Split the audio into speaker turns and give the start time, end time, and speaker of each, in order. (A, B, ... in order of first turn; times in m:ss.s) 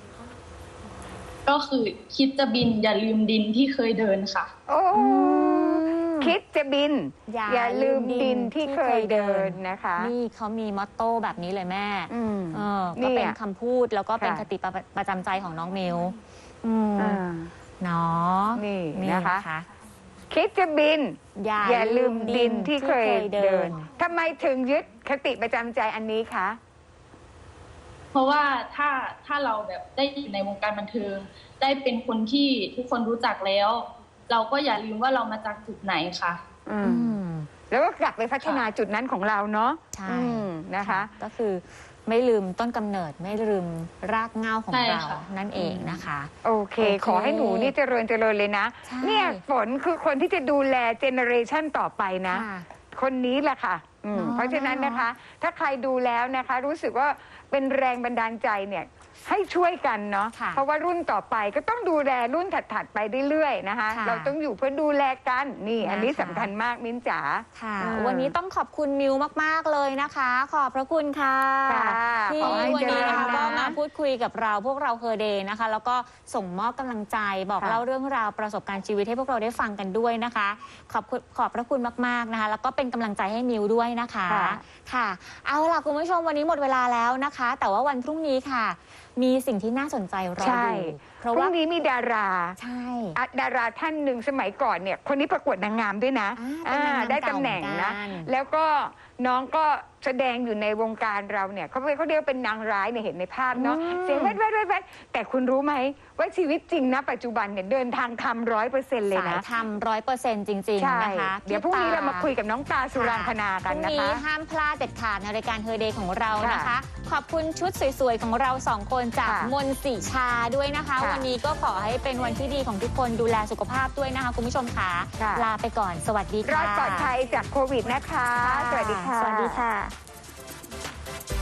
0:01.5-0:04.5 A
0:04.7-0:10.1 B
0:05.0-0:06.4 C
0:07.3-0:17.2 C
0:12.1-0:13.4 B
0:14.2-0:14.4 B
0:17.0-0:17.5 B
0:17.8-0:19.7 C
0:18.6-0:19.4 B
0:20.3-0:26.6 B
0:21.4-0:23.9 C
0:28.1-0:36.4 A
0:36.7-0:37.2 B
0:36.8-0:37.5 C
0:37.7-0:41.1 B
0:39.9-0:47.7 C
0:44.7-0:45.2 A
0:45.6-1:08.3 B
0:48.8-0:49.4 C
0:52.3-0:52.7 C
0:54.1-0:55.1 C
1:00.3-1:00.6 C
1:03.9-1:04.3 C
1:05.8-1:06.5 C
1:07.6-1:31.5 C
1:11.7-1:13.8 B
1:24.3-1:24.6 B
1:30.4-1:32.6 B
1:32.6-1:33.2 C
1:33.2-1:49.4 B
1:36.4-1:38.3 C
1:43.5-1:44.4 C
1:49.1-1:52.3 C
1:50.8-1:54.2 B
1:52.9-2:07.2 C
1:56.4-1:56.7 B
1:59.2-1:59.5 B
2:01.0-2:01.3 B
2:05.2-2:05.5 B
2:06.4-2:09.6 B
2:08.4-2:09.9 C